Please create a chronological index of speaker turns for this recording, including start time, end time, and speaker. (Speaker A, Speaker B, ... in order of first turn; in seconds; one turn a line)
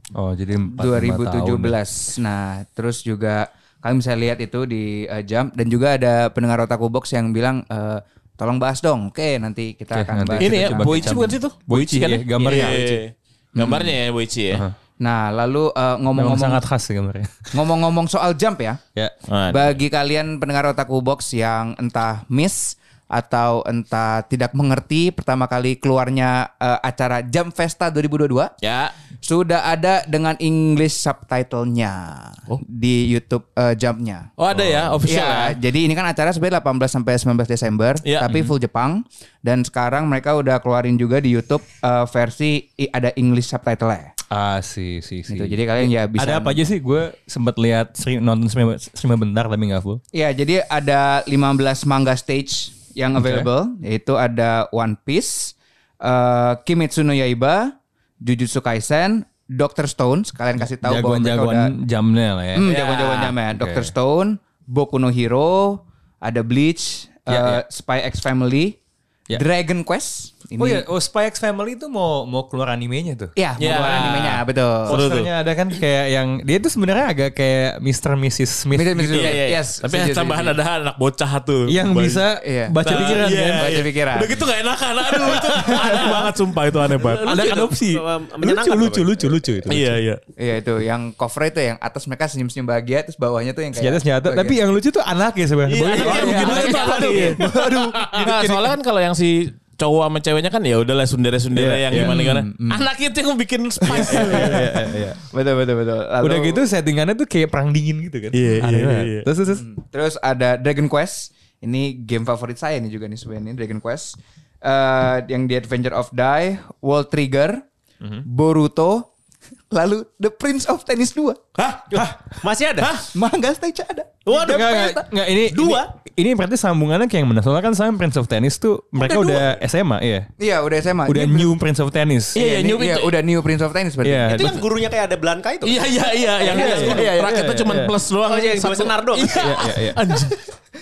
Speaker A: 0.1-1.8
Speaker B: 0.7-11.2
Speaker A: 9.9-13.0
Speaker C: 10.4-14.6
Speaker B: 13.6-14.0
Speaker B: 15.0-16.6
Speaker A: 16.1-17.6
Speaker B: 17.5-18.8
Speaker C: 19.3-19.8
Speaker B: 19.5-28.5
Speaker C: 28.6-28.9
Speaker B: 29.2-34.3
Speaker C: 34.4-35.6
Speaker A: 34.5-35.0
Speaker B: 35.0-44.1
Speaker C: 38.0-38.4
Speaker A: 44.3-50.0
Speaker B: 45.3-46.6
Speaker B: 50.1-61.8
Speaker A: 53.2-53.5
Speaker A: 60.8-62.8
Speaker B: 62.5-68.8
Speaker C: 62.7-63.3
Speaker A: 63.5-63.9
Speaker A: 67.3-67.6
Speaker B: 69.3-70.8
Speaker A: 70.6-79.4
Speaker B: 73.4-75.0
Speaker C: 73.6-74.4
Speaker C: 74.9-75.3
Speaker B: 78.7-80.6
Speaker C: 79.1-82.3
Speaker A: 81.7-83.9
Speaker B: 82.4-84.4
Speaker C: 82.8-87.6
Speaker D: 85.2-86.3
Speaker A: 85.4-86.0
Speaker B: 85.5-86.1
Speaker D: 87.0-89.4
Speaker A: 87.0-90.0
Speaker C: 89.7-90.2
Speaker B: 90.4-94.6
Speaker A: 93.8-98.8
Speaker C: 95.7-97.4
Speaker B: 96.0-98.0
Speaker C: 98.0-104.8
Speaker A: 101.5-102.2
Speaker B: 101.9-102.9
Speaker B: 103.8-106.7
Speaker A: 103.9-105.2
Speaker A: 106.2-109.7
Speaker C: 108.3-109.3
Speaker B: 109.6-117.6
Speaker B: 118.2-119.1
Speaker B: 119.7-121.4
Speaker C: 121.6-121.8
Speaker D: 121.6-123.0
Speaker B: 123.0-125.0
Speaker D: 124.3-125.9
Speaker A: 124.3-130.3
Speaker B: 129.1-129.4
Speaker B: 130.4-131.5
Speaker A: 131.1-132.4
Speaker C: 132.3-133.2
Speaker B: 132.3-134.6
Speaker A: 134.0-134.7
Speaker D: 134.3-137.2
Speaker C: 135.6-140.4
Speaker A: 136.5-137.9
Speaker B: 136.6-137.7
Speaker D: 138.3-139.5
Speaker A: 139.3-140.1
Speaker B: 139.6-140.2